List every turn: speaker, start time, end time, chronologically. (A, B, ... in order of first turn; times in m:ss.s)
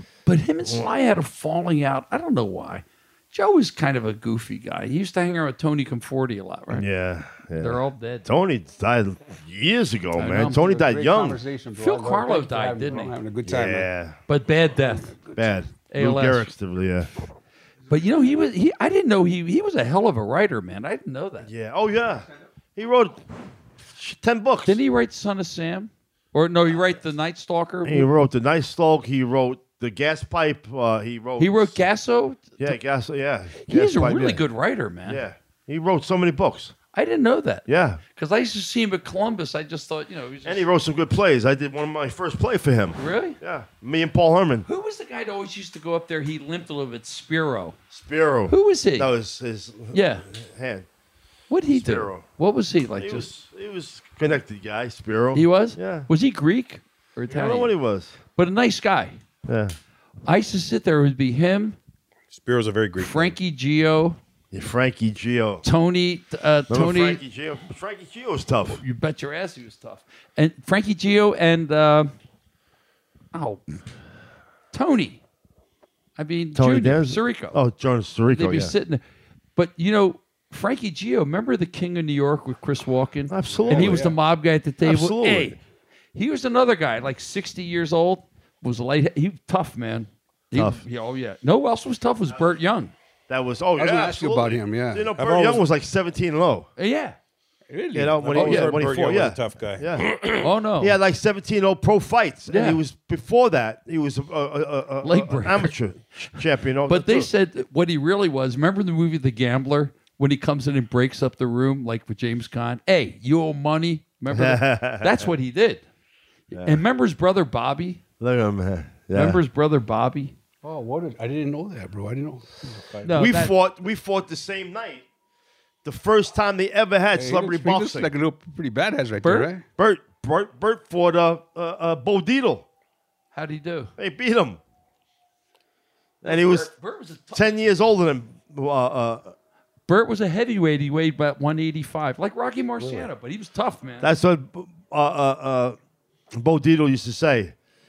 0:00.2-0:06.9 A
0:06.7-0:11.4 B
0:07.6-0:08.3 A
0:10.2-0:10.7 A
0:10.5-0:13.9 C
0:11.8-0:13.1 A
0:13.4-0:14.2 B
0:14.3-0:15.1 A
0:14.8-0:15.6 C
0:15.4-0:17.1 B
0:15.9-0:16.5 A
0:17.9-0:21.5 A
0:21.4-0:23.2 B
0:23.9-0:24.8 B
0:24.6-0:28.1 A
0:27.8-0:31.8 B
0:31.4-0:32.8 A
0:32.6-0:34.4 B
0:33.6-0:35.2 A
0:35.0-0:36.7 B
0:36.9-0:40.6 A
0:37.7-0:38.0 B
0:40.4-0:44.6 B
0:43.0-0:43.4 A
0:44.6-0:47.8 A
0:47.9-0:50.8 B
0:48.5-0:49.1 A
0:49.9-0:50.2 A
0:51.5-0:53.3 A
0:51.7-0:52.2 B
0:53.0-0:56.1 B
0:55.3-0:57.7 A
0:57.3-0:58.2 B
0:58.3-0:59.2 A
0:59.5-0:59.8 B
1:00.2-1:01.8 A
1:02.3-1:03.4 D
1:03.0-1:04.2 A
1:04.5-1:05.6 B
1:05.6-1:07.2 A
1:06.7-1:08.8 B
1:08.7-1:12.1 A
1:13.3-1:13.8 A
1:14.7-1:15.2 A
1:16.2-1:17.6 A
1:16.5-1:18.7 B
1:18.3-1:19.0 A
1:19.6-1:25.6 A
1:23.3-1:24.1 B
1:23.4-1:24.2 C
1:24.8-1:25.6 B
1:26.1-1:32.9 A
1:30.5-1:30.8 B
1:33.3-1:36.7 B
1:33.8-1:35.1 C
1:35.2-1:35.6 D
1:36.8-1:37.2 A
1:37.7-1:38.6 C
1:37.9-1:40.1 B
1:38.3-1:38.7 A
1:38.4-1:40.4 D
1:40.4-1:41.0 A
1:40.8-1:47.3 B
1:42.5-1:42.8 A
1:45.0-1:45.7 A
1:46.9-1:55.8 A
1:54.3-1:55.3 B
1:56.5-1:56.8 B
1:56.6-1:58.0 A
1:58.2-1:59.4 B
1:59.1-2:00.3 A
2:00.6-2:03.2 C
2:03.0-2:03.5 A
2:03.1-2:05.0 B
2:05.8-2:08.1 B
2:07.1-2:09.6 C
2:09.2-2:09.5 A
2:09.8-2:12.6 B
2:13.3-2:13.9 A
2:14.0-2:14.6 B
2:16.2-2:16.7 B
2:16.2-2:17.6 A
2:17.3-2:19.3 B
2:19.9-2:24.1 A
2:24.0-2:25.8 B
2:26.3-2:27.5 B